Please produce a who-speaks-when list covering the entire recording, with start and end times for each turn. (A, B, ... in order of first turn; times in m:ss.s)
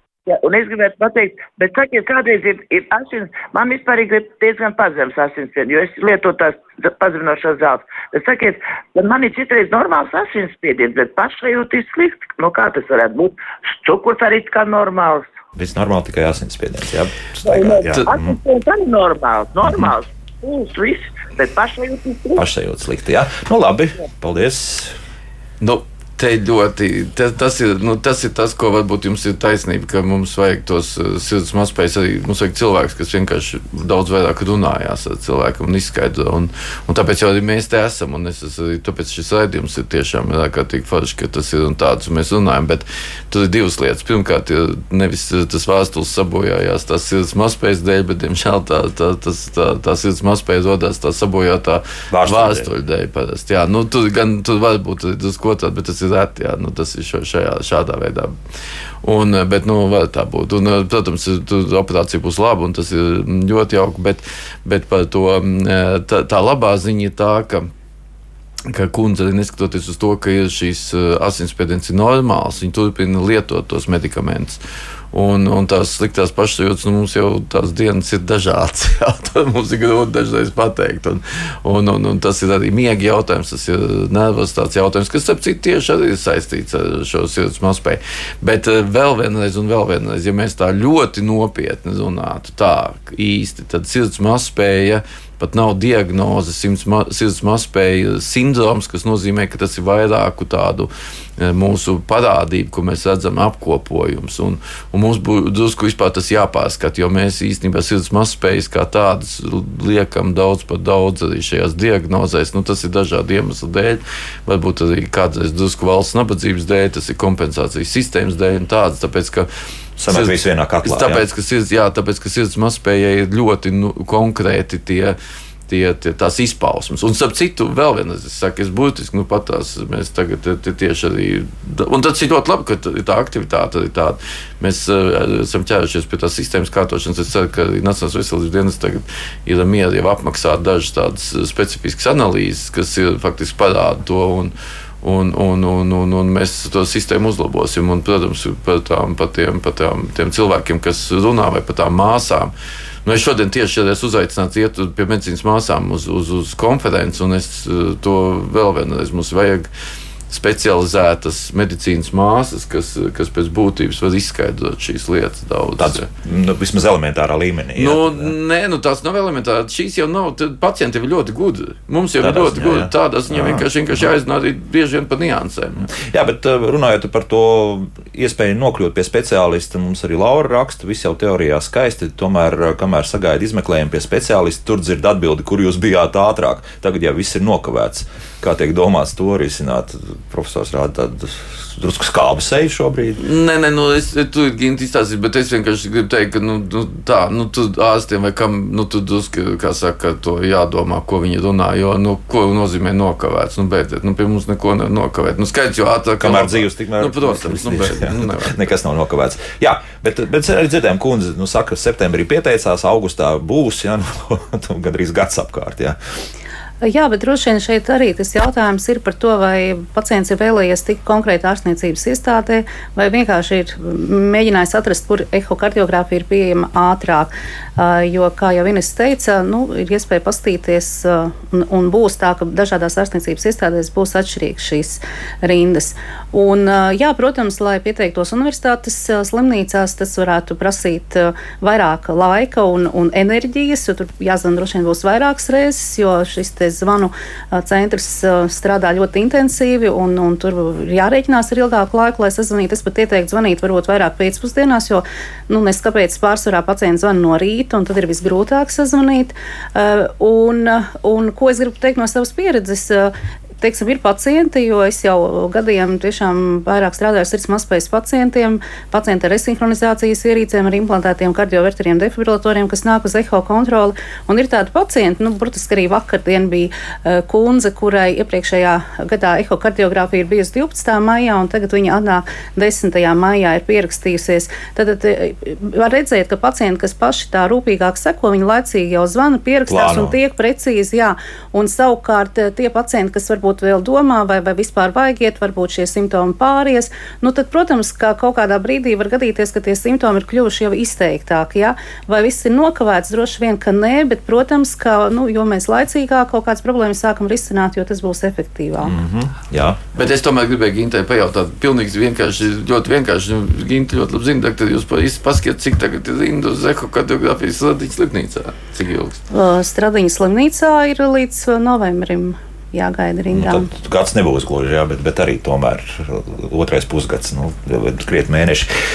0:00.3-0:15.3 A
0:15.5-0:18.4 B
0:17.4-0:22.4 A
0:17.8-0:18.1 C
0:19.6-0:19.9 B
0:22.4-0:24.9 B
0:25.6-0:58.3 C
0:52.1-0:52.7 B
0:59.0-1:07.7 C
1:08.7-1:14.6 C
1:15.1-1:59.5 C
2:00.0-2:01.2 B
2:00.1-2:00.3 C
2:00.8-2:05.2 C
2:05.7-2:32.5 C
2:33.0-2:39.7 C
2:40.3-2:46.1 C
2:45.8-2:48.3 B
2:47.8-2:55.9 C
2:52.2-2:54.1 B
2:56.0-3:13.2 B
3:13.2-3:28.7 C
3:26.2-3:36.0 B
3:36.8-5:09.0 D
4:49.7-4:50.2 B
5:08.8-5:09.8 B
5:09.9-5:19.2 C
5:19.3-5:23.7 D
5:23.3-5:28.7 B